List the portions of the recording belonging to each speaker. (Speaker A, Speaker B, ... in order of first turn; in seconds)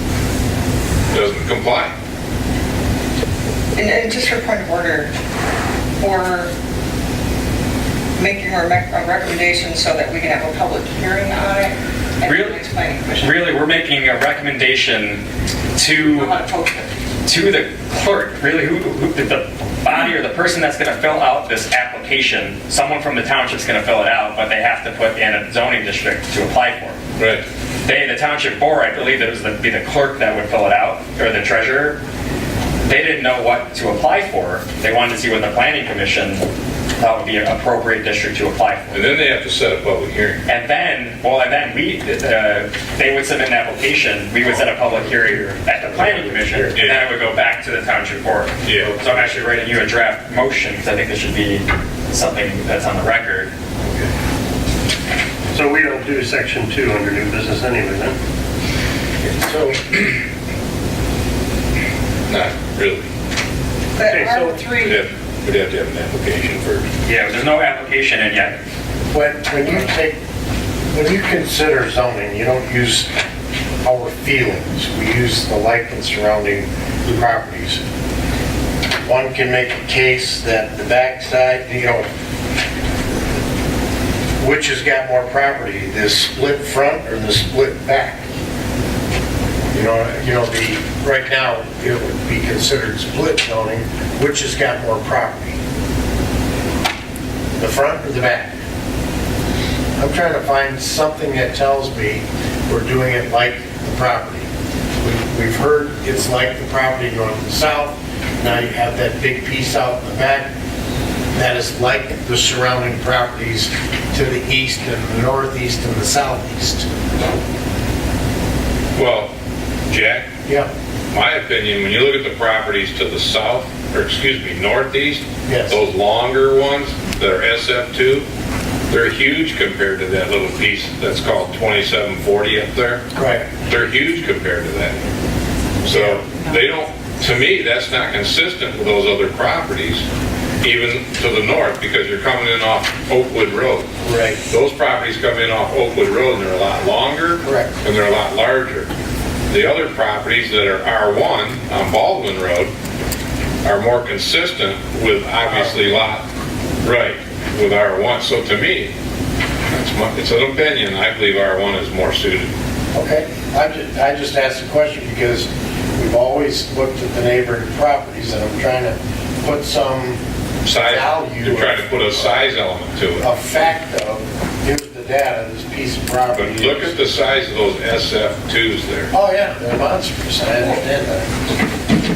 Speaker A: 1.1-1.9, 27.2-27.4, 38.9-40.4, 46.7-47.1, 48.6-49.0, 62.3-63.1, 64.8-66.9, 119.0-119.3, 119.9-120.3, 121.1-128.3, 128.9-135.0, 135.8-140.1, 140.6-143.9, 144.5-148.9, 149.5-152.7, 153.6-156.3, 156.8-158.9, 159.7-162.5, 170.7-173.3, 176.3-179.1
Speaker B: 3.8-5.1, 6.0-6.5, 8.2-13.4, 16.0-16.9, 64.0-65.0, 136.3-136.6
Speaker C: 12.2-12.6, 13.2-15.2, 15.8-16.4, 17.3-27.0, 27.8-32.0, 32.8-36.5, 37.0-39.0, 40.5-53.5, 67.0-68.6
Speaker D: 55.5-58.1, 64.1-64.7
Speaker E: 59.2-60.0, 69.1-70.2, 70.9-73.1, 73.8-77.8, 79.0-82.0, 84.4-88.2, 89.7-95.6, 97.6-98.5, 100.0-104.5, 105.0-110.5, 111.3-116.9, 125.5-125.8, 133.2-133.5, 135.9-136.2, 144.0-144.4, 147.4-147.7, 155.5-155.8, 162.9-170.2, 170.8-172.0, 173.2-177.0, 179.1-181.3